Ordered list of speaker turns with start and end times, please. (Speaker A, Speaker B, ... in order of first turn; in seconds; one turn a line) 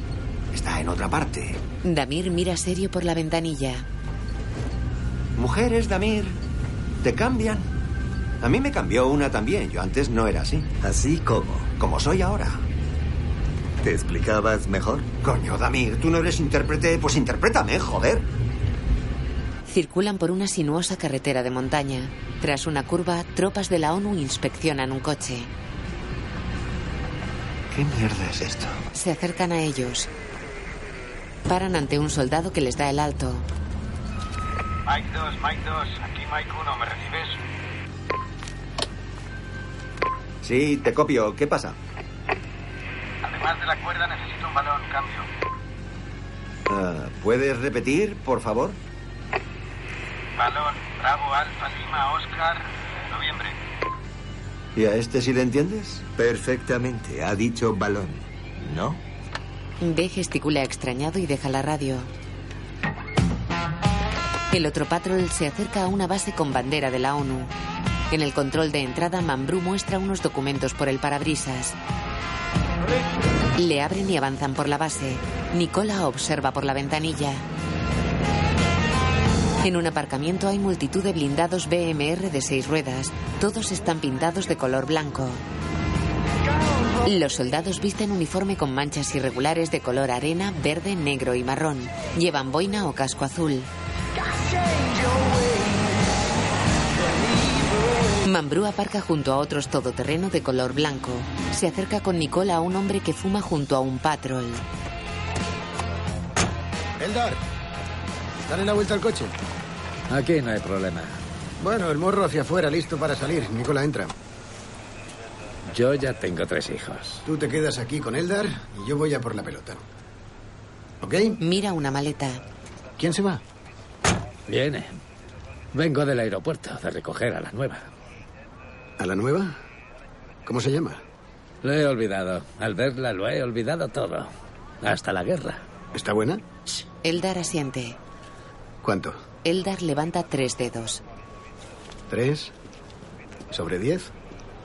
Speaker A: 0.5-1.6
Speaker B: 1.8-3.9
Speaker A: 5.4-6.4
Speaker A: 7.0-7.7
Speaker A: 8.4-10.7
Speaker C: 10.8-11.7
Speaker A: 11.8-12.6
Speaker C: 13.8-15.1
Speaker A: 15.2-18.3
Speaker B: 19.7-25.5
Speaker A: 27.7-28.8
Speaker B: 28.9-30.1
Speaker B: 31.5-33.5
Speaker D: 34.9-37.4
Speaker A: 40.4-41.8
Speaker D: 43.2-45.3
Speaker A: 46.7-48.8
Speaker D: 50.4-53.5
Speaker A: 54.8-56.0
Speaker C: 56.2-59.0
Speaker B: 59.8-62.1
Speaker B: 64.5-67.5
Speaker B: 68.1-71.8
Speaker B: 73.6-77.5
Speaker B: 79.6-85.4
Speaker B: 87.0-93.7
Speaker B: 98.2-104.6
Speaker E: 107.0-107.4
Speaker E: 108.5-109.3
Speaker F: 110.1-111.2
Speaker E: 111.6-114.1
Speaker F: 115.7-117.2
Speaker E: 117.3-119.8
Speaker E: 121.0-121.4
Speaker B: 121.4-122.4
Speaker E: 123.0-123.4
Speaker F: 124.5-125.0
Speaker F: 125.7-127.9
Speaker E: 129.0-129.6
Speaker E: 130.5-131.0
Speaker F: 131.6-134.3
Speaker F: 134.8-135.6
Speaker E: 135.9-136.4
Speaker B: 137.0-138.0
Speaker E: 138.8-139.2
Speaker B: 139.4-141.0
Speaker E: 142.1-142.5
Speaker E: 143.5-144.1